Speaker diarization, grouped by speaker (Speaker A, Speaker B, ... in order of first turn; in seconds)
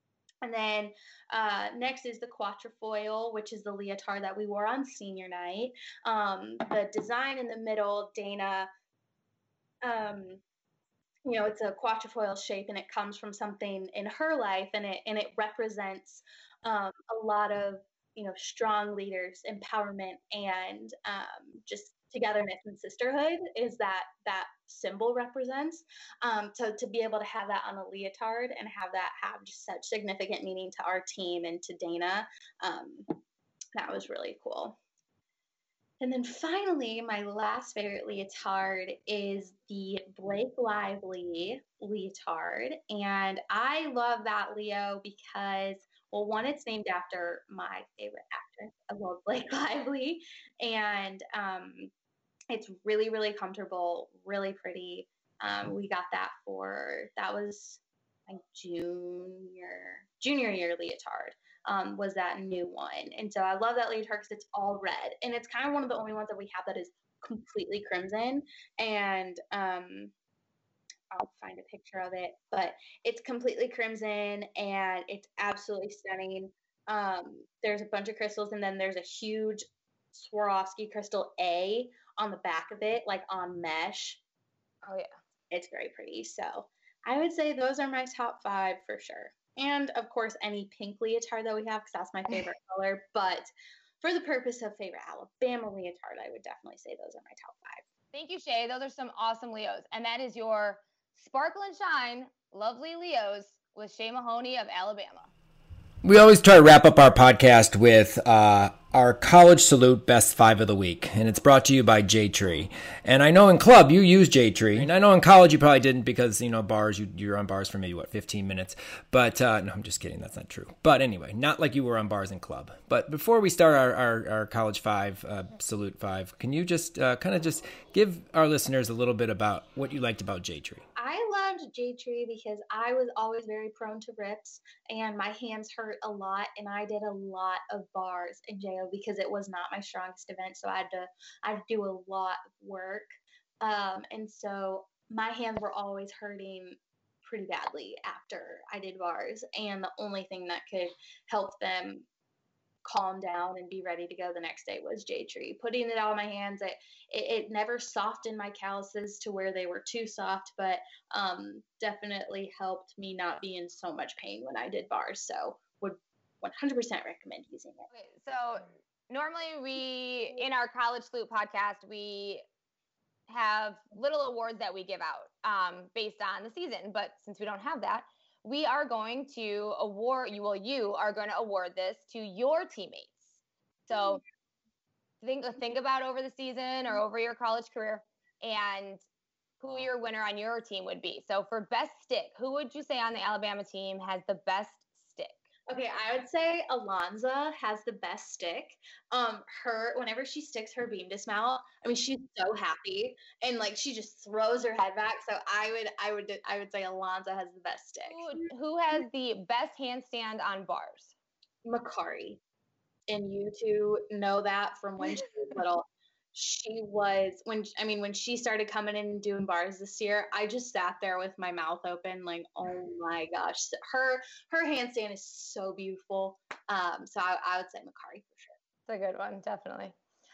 Speaker A: 0.4-8.7, 9.8-10.4, 11.2-33.1, 33.8-34.8, 36.0-51.9, 52.5-70.1, 71.1-84.2, 85.5-93.5, 94.0-97.8, 130.9-152.1, 152.8-167.9, 195.7-208.5, 211.6-212.4, 213.1-228.5
Speaker B: 84.8-85.1, 98.1-105.3, 167.9-172.4, 173.3-184.2, 185.2-189.0, 189.6-195.3, 208.1-211.1, 228.9-229.9
Speaker C: 106.0-130.8